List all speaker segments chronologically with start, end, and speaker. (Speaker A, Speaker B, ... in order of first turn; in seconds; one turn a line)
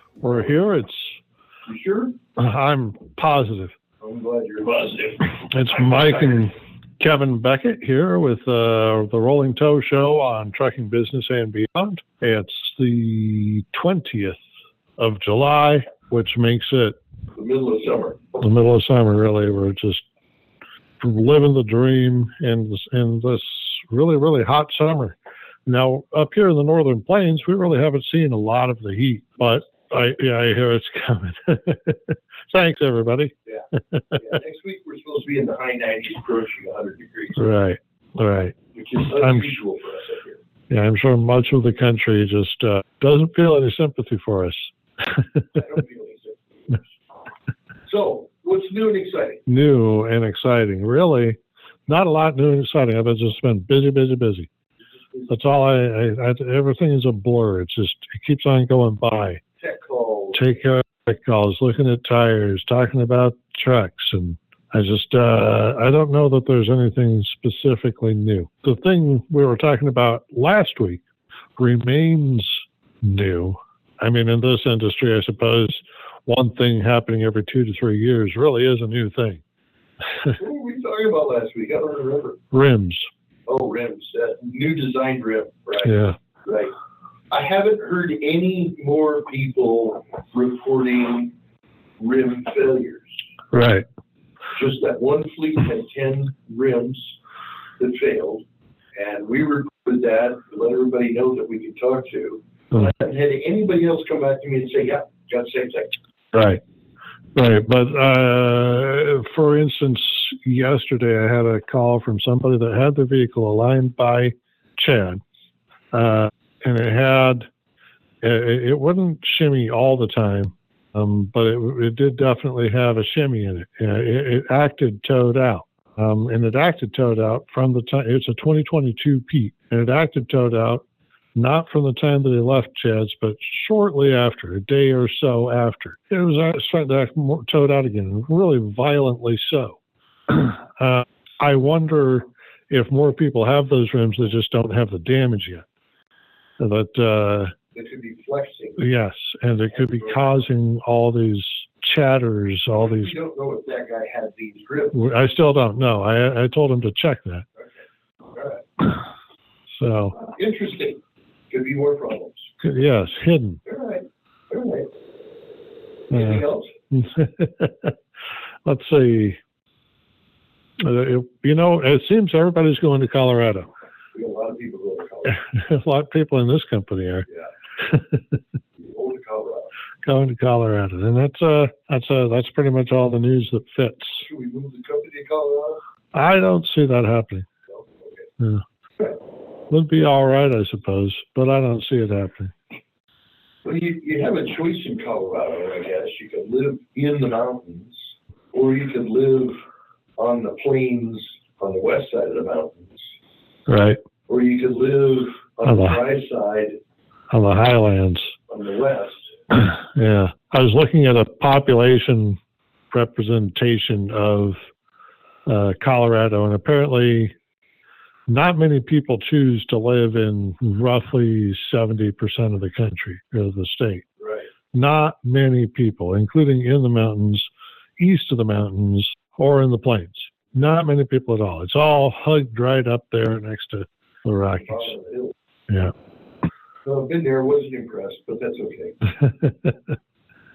Speaker A: 0.2-1.2
Speaker B: 1.7-2.2
Speaker A: 2.4-3.7
Speaker B: 4.0-5.4
Speaker A: 5.3-14.4
Speaker A: 15.0-17.0
Speaker B: 17.4-18.2
Speaker A: 18.4-20.0
Speaker A: 21.0-34.2
Speaker B: 34.1-37.4
Speaker A: 37.4-38.5
Speaker B: 38.8-40.4
Speaker A: 39.1-39.5
Speaker A: 40.7-45.5
Speaker B: 45.5-46.9
Speaker B: 47.9-49.4
Speaker A: 49.5-54.5
Speaker A: 55.3-59.4
Speaker B: 59.6-60.4
Speaker A: 60.3-71.0
Speaker A: 71.6-79.4
Speaker B: 80.4-82.4
Speaker A: 82.5-83.1
Speaker B: 83.5-86.7
Speaker A: 85.8-86.2
Speaker B: 87.3-91.3
Speaker B: 92.0-93.1
Speaker A: 93.5-93.8
Speaker B: 94.5-97.2
Speaker B: 97.8-98.4
Speaker B: 99.0-106.0
Speaker A: 106.3-106.6
Speaker A: 107.3-115.2
Speaker A: 115.9-117.5
Speaker A: 118.2-130.8
Speaker A: 131.3-139.8
Speaker A: 140.3-145.7
Speaker A: 146.6-147.5
Speaker B: 147.7-148.8
Speaker A: 148.8-153.2
Speaker B: 149.7-150.4
Speaker B: 152.8-155.0
Speaker A: 154.9-157.5
Speaker B: 158.3-158.6
Speaker A: 159.7-160.2
Speaker B: 160.2-162.5
Speaker A: 162.6-163.6
Speaker B: 163.7-164.9
Speaker B: 166.1-166.7
Speaker A: 166.1-167.9
Speaker A: 168.7-169.4
Speaker A: 170.8-173.7
Speaker B: 174.1-175.4
Speaker A: 175.3-177.3
Speaker A: 177.8-178.3
Speaker B: 178.8-179.7
Speaker A: 180.0-184.3
Speaker B: 184.2-185.8
Speaker A: 186.1-187.5
Speaker B: 187.7-188.2
Speaker A: 188.4-188.6
Speaker A: 189.7-192.6
Speaker B: 193.6-199.6
Speaker B: 200.2-203.1
Speaker A: 203.7-204.0
Speaker B: 204.3-206.8
Speaker A: 205.6-206.0
Speaker A: 207.3-208.3
Speaker B: 208.5-209.2
Speaker A: 209.5-212.4
Speaker A: 212.9-214.6
Speaker A: 215.5-217.3
Speaker A: 218.3-224.1
Speaker A: 224.7-234.9
Speaker B: 234.6-235.3
Speaker B: 236.8-239.0
Speaker A: 239.1-239.9